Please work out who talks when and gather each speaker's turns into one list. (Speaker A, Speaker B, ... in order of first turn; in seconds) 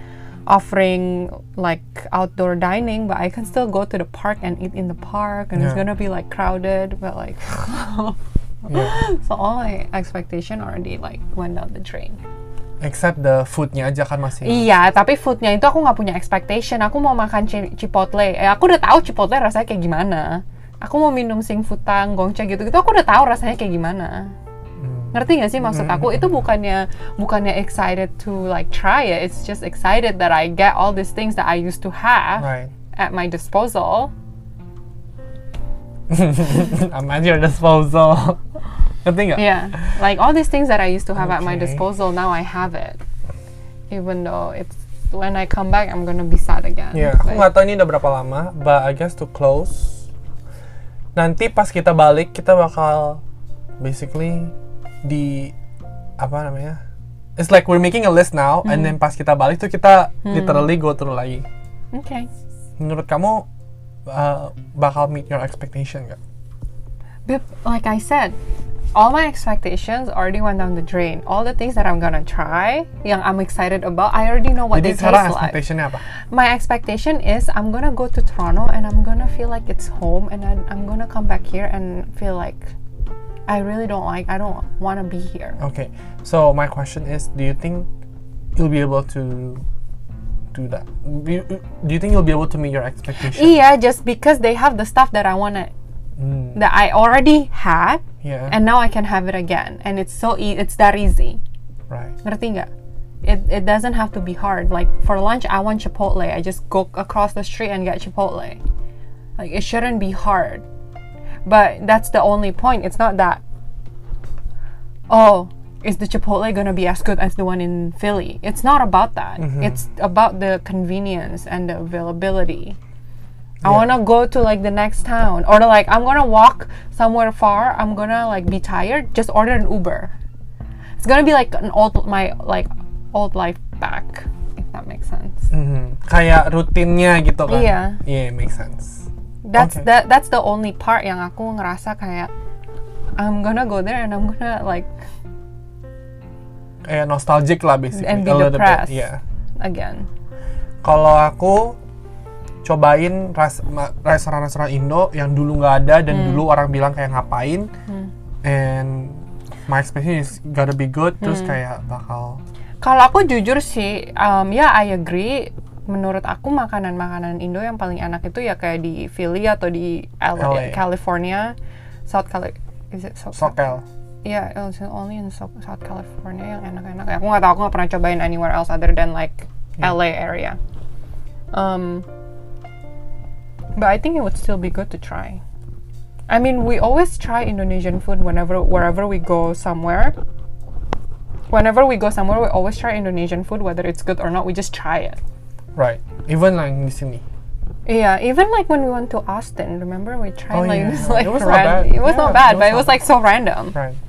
Speaker A: 0.5-12.2, 14.4-24.3, 25.1-34.1, 39.4-43.0, 43.9-47.5, 58.6-59.0, 60.2-60.7, 61.9-62.3, 67.3-68.4, 68.9-75.6, 76.3-82.7, 83.5-85.6, 93.3-95.7, 96.5-101.4, 102.2-102.7, 103.2-108.6, 109.4-110.7, 111.5-113.4, 115.1-122.8, 123.6-130.1, 131.0-135.5, 137.5-138.0, 139.4-142.3, 143.2-144.9, 147.9-149.1, 149.6-150.1, 156.1-156.4, 161.2-161.6, 162.8-171.6, 172.1-173.6, 174.2-180.6, 181.5-182.1, 183.8-185.4, 186.3-190.2, 191.5-195.2, 197.9-203.8
Speaker B: 5.6-5.8, 8.7-9.0, 12.8-14.7, 24.8-26.5, 32.4-32.7, 36.1-38.4, 39.0-39.9, 41.2-41.9, 46.9-50.1, 51.2-53.2, 53.8-55.5, 56.2-56.8, 57.4-61.5, 62.8-63.5, 64.1-66.2, 74.7-76.0, 85.6-87.9, 88.5-89.6, 90.5-93.6, 96.2-96.6, 98.2-98.6, 101.9-102.2, 119.4-119.8, 123.6-123.9, 135.5-139.9, 146.8-149.2, 150.8-151.8, 152.6-157.7, 158.4-162.4, 170.4-170.8, 173.4-173.8, 195.8-197.2, 200.5-203.1